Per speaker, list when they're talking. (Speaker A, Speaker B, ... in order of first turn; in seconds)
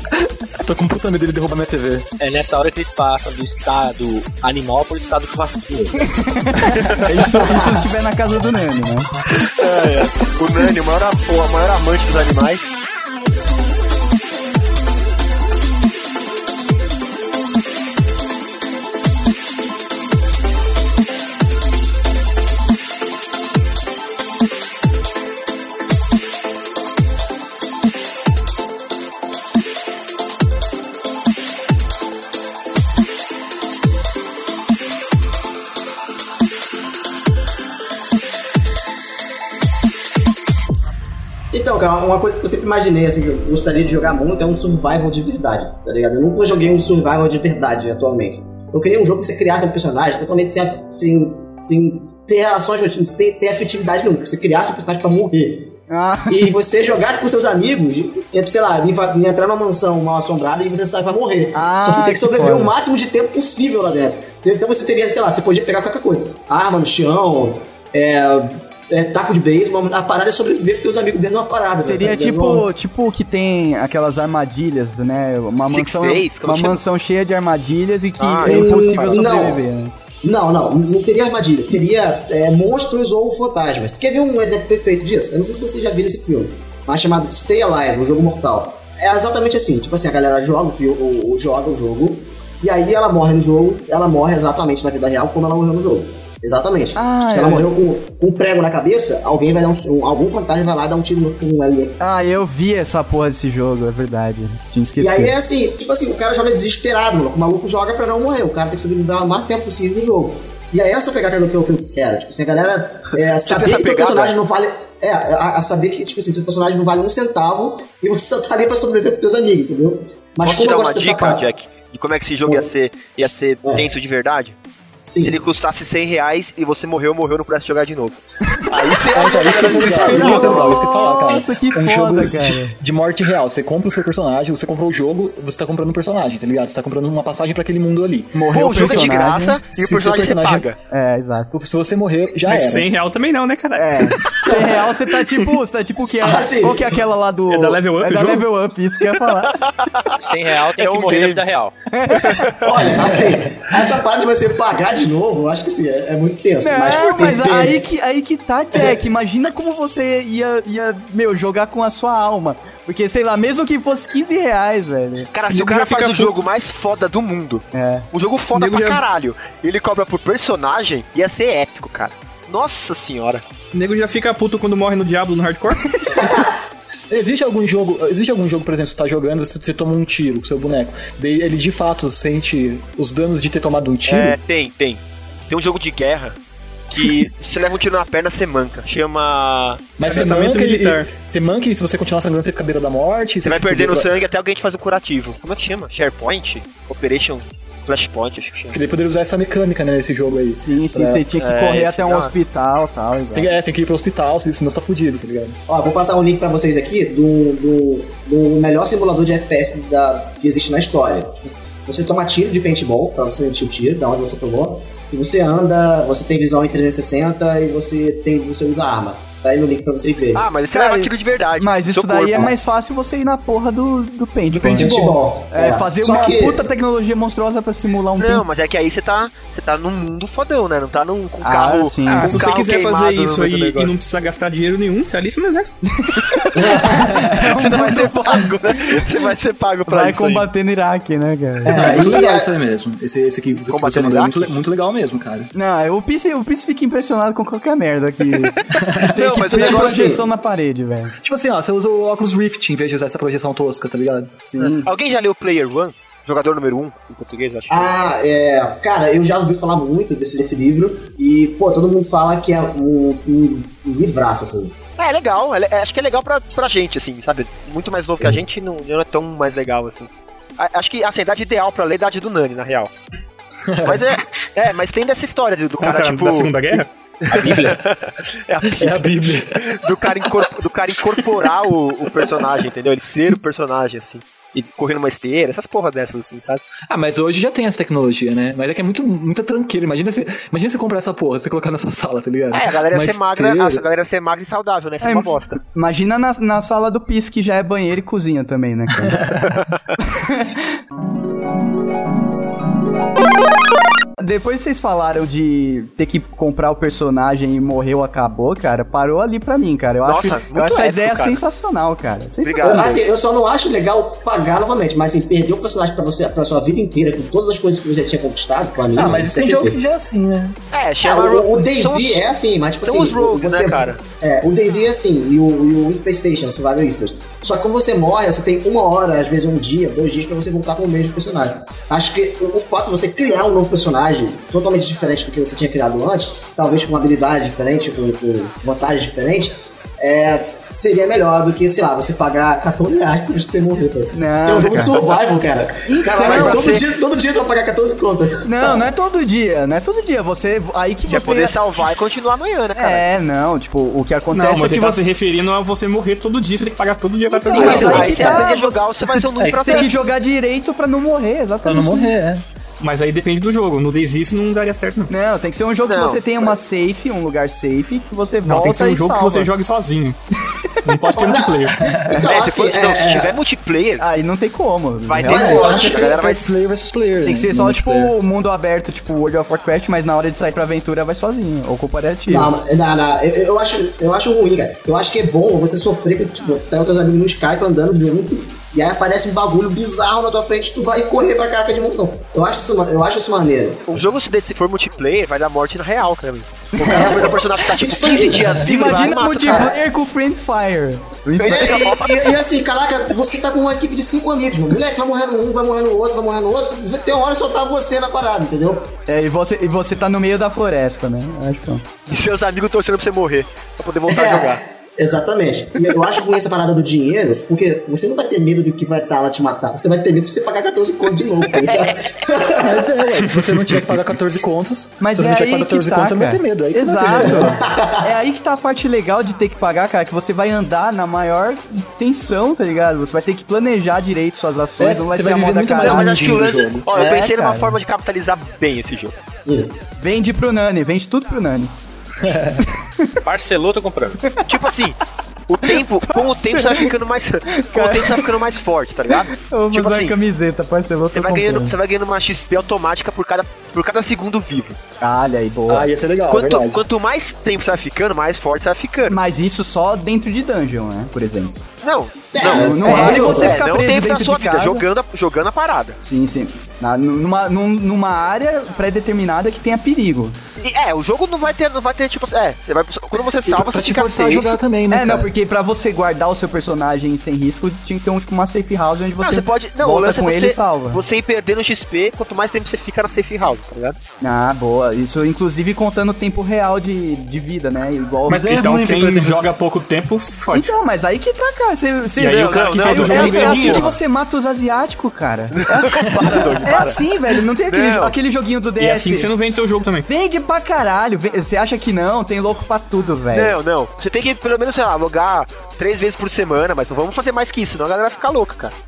Speaker A: 0.6-2.0, 129.1-140.7, 141.5-142.9, 177.1-184.4, 190.0-194.1, 198.7-201.2, 203.3-205.6, 236.9-237.3, 241.7-245.5, 248.8-249.1, 251.2-254.4, 273.7-274.1, 278.6-279.6, 286.9-293.8, 299.0-299.6, 318.9-320.6, 359.4-359.9, 361.6-362.4, 371.8-372.1, 375.3-378.1, 422.6-427.6, 434.8-436.9, 442.2-442.6, 455.7-456.8, 473.4-475.3, 488.3-489.5, 496.1-496.6
Speaker B: 2.2-6.1, 150.2-151.7, 277.3-277.8, 443.2-444.4
Speaker C: 6.1-9.1, 55.9-56.5, 61.5-62.7, 71.8-79.9, 97.0-97.7, 102.0-105.3, 129.7-132.8, 138.3-139.6, 140.9-141.5, 143.8-149.6, 151.9-152.5, 156.6-165.3, 167.7-168.1, 200.6-203.5, 220.7-228.4, 231.4-232.4, 235.9-239.1, 239.9-242.1, 245.5-251.1, 254.5-254.9, 295.0-299.2, 300.0-300.7, 304.2-313.0, 344.1-345.0, 345.8-346.7, 348.4-351.5, 352.7-355.1, 357.4-362.1, 365.1-369.5, 374.0-375.6, 377.2-382.5, 396.8-397.3, 398.0-402.0, 409.1-411.8, 425.0-437.7, 439.9-441.7, 442.6-443.1, 446.1-446.9, 447.7-448.3, 449.3-451.7, 455.0-455.9, 459.1-461.6, 462.4-464.8, 466.0-470.4, 474.9-481.0, 484.2-488.6, 490.5-496.1, 496.6-499.3, 500.1-503.6
Speaker D: 9.3-12.8, 75.7-76.8, 78.2-79.1, 113.4-114.3, 120.4-124.5, 125.2-130.9, 138.5-140.8, 149.4-150.1, 150.7-151.6, 152.1-152.7, 165.3-173.4, 184.1-186.3, 186.9-190.3, 193.4-198.8, 201.3-202.3, 220.3-222.5, 228.2-234.0, 237.3-240.5, 243.7-244.5, 249.1-250.1, 254.6-258.1, 265.0-272.9, 273.8-286.6, 292.5-295.6, 310.0-311.4, 312.4-313.0, 320.7-322.2, 322.8-324.0, 346.2-346.8, 351.1-353.1, 357.5-359.9, 365.8-366.6, 372.3-374.1, 375.1-376.5, 393.9-399.7, 401.4-402.4, 412.1-414.6, 421.6-421.9, 435.8-439.1, 444.4-450.1, 451.1-454.8, 456.3-459.2, 461.8-466.0, 470.6-474.6, 479.2-484.0, 492.4-493.9, 495.5-497.1, 497.7-498.1, 503.3-508.7
Speaker E: 41.5-55.7, 56.3-72.7, 78.4-79.6, 80.2-102.0, 105.0-121.4, 125.0-125.4, 129.4-130.7, 146.2-147.0, 152.6-157.8, 176.2-176.5, 205.7-220.4, 224.6-226.7, 236.6-237.1, 241.6-242.5, 249.5-250.3, 257.7-264.8, 312.6-319.8, 321.0-348.8, 357.3-358.5, 371.1-373.4, 375.3-376.1, 382.3-393.8, 396.8-398.6, 399.4-399.8, 401.5-408.9, 414.1-422.9, 427.2-428.1, 439.4-439.8, 462.3-463.6
Speaker F: 142.4-145.5, 147.5-148.5, 165.5-166.4, 168.5-169.0, 173.7-176.0, 190.1-191.1, 232.1-235.7, 275.8-276.9, 354.3-358.3, 362.8-365.1, 368.4-370.2, 370.8-371.8, 423.3-423.7, 488.3-490.7, 492.1-493.9, 498.8-500.1